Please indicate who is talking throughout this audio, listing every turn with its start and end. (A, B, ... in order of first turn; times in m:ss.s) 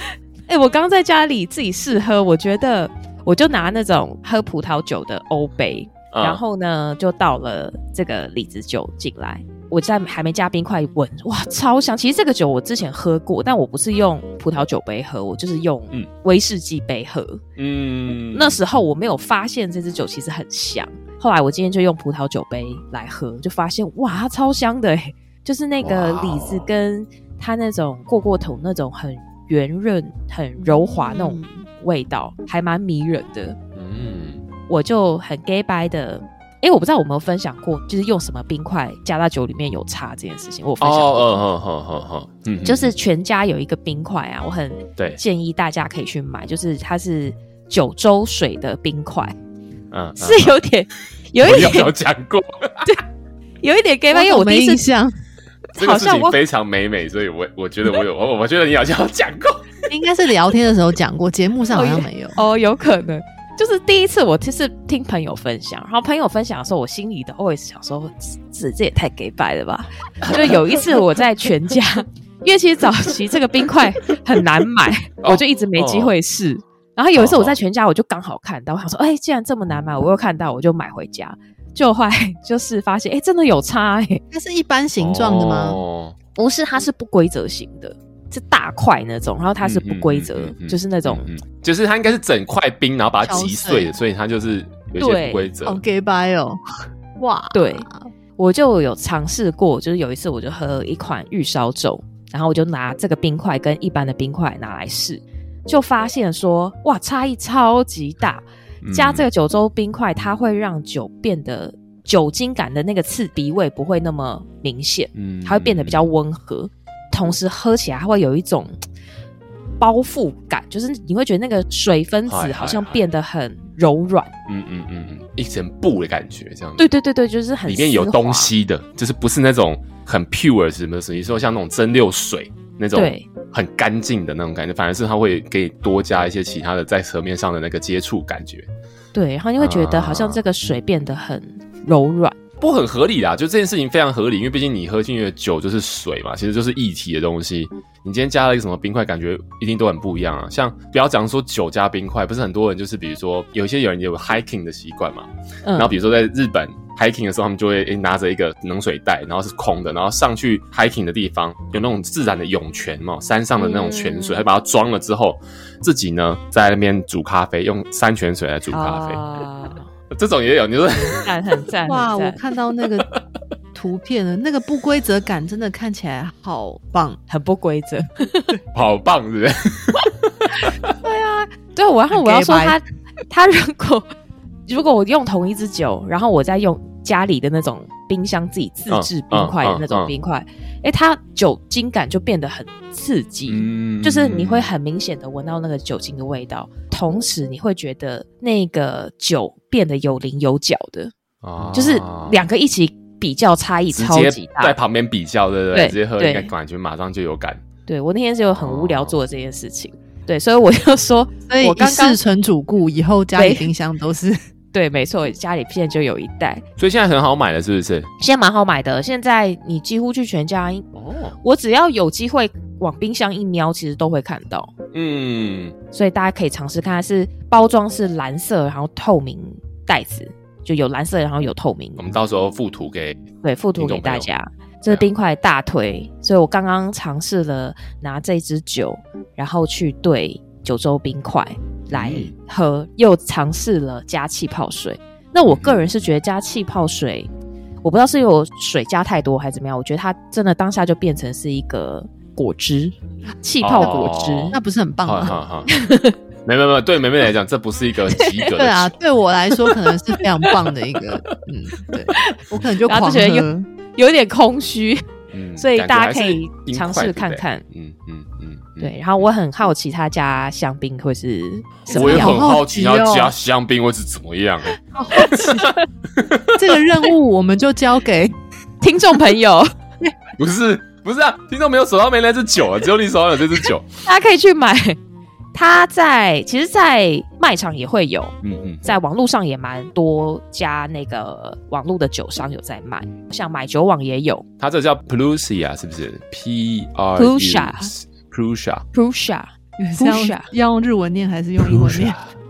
0:00.5-0:17.4 A
0:06.1-0:06.4 B
0:17.6-0:18.6 B
0:18.2-0:33.6 A
0:25.8-0:26.7 B
0:30.6-0:31.5 C
0:33.7-0:34.4 B
0:34.7-0:41.4 A
0:40.8-0:42.9 B
0:42.6-0:49.3 A
0:49.9-0:50.5 B
0:50.2-0:51.9 A
0:51.4-0:52.9 B
0:53.6-0:54.8 A
0:54.1-0:55.2 C
0:55.7-0:56.4 A
0:55.8-0:59.7 B
0:59.9-1:02.4 C
1:01.7-1:24.2 A
1:10.4-1:10.8 B
1:15.2-1:16.1 B
1:17.2-1:17.6 B
1:24.3-1:25.8 C
1:25.0-1:26.2 B
1:26.4-1:31.3 A
1:29.6-1:35.8 B
1:33.2-1:33.9 C
1:35.0-1:35.5 A
1:35.6-1:36.6 C
1:37.2-1:38.1 C
1:37.5-1:37.8 A
1:38.4-1:58.7 A
1:48.8-1:49.2 B
1:55.1-1:56.1 B
1:59.8-2:04.3 A
2:02.3-2:03.0 B
2:04.5-2:06.9 B
2:06.8-2:08.5 A
2:07.6-2:18.7 B
2:12.9-2:13.2 A
2:19.1-2:22.4 A
2:19.6-2:20.4 B
2:22.6-2:49.2 B
2:35.6-2:35.9 A
2:43.6-2:44.4 A
2:48.7-2:49.9 A
2:50.1-2:51.2 B
2:51.1-2:52.4 A
2:51.9-2:53.1 C
2:53.7-2:57.2 C
2:57.3-2:58.6 A
2:58.7-3:00.8 B
3:00.5-3:04.1 A
3:02.1-3:02.8 C
3:04.7-3:21.1 A
3:08.9-3:10.1 B
3:13.5-3:14.7 B
3:21.4-3:22.4 B
3:21.7-3:24.8 A
3:23.9-3:27.6 B
3:25.7-3:26.5 A
3:27.8-3:32.2 A
3:28.6-3:29.2 B
3:31.5-3:34.4 C
3:33.3-3:33.7 A
3:34.7-3:36.6 A
3:36.8-3:38.1 B
3:38.2-3:40.8 A
3:40.9-3:41.4 B
3:41.4-3:44.7 A
3:44.9-3:45.7 B
3:45.9-3:52.0 A
3:52.0-3:53.2 B
3:53.4-4:07.3 A
3:53.8-3:54.3 B
4:01.9-4:02.3 B
4:05.5-4:05.8 B
4:07.8-4:14.6 A
4:13.6-4:15.7 B
4:14.5-4:15.4 C
4:15.7-4:16.2 A
4:16.4-4:19.0 B
4:18.2-4:18.5 A
4:18.5-4:23.7 C
4:22.1-4:25.0 A
4:25.3-4:29.3 B
4:25.6-4:27.6 A
4:28.8-4:32.4 A
4:31.9-4:33.3 C
4:31.9-4:34.8 B
4:35.0-4:35.6 C
4:35.1-4:35.8 A
4:35.3-4:36.6 B
4:36.5-4:38.3 C
4:38.8-4:39.7 A
4:40.4-4:43.9 B
4:44.0-4:45.0 A
4:45.5-4:54.4 A
4:48.4-4:48.8 B
4:54.6-4:58.8 B
4:57.2-4:57.9 A
4:58.9-5:00.5 A
4:59.8-5:02.2 C
5:01.6-5:02.2 B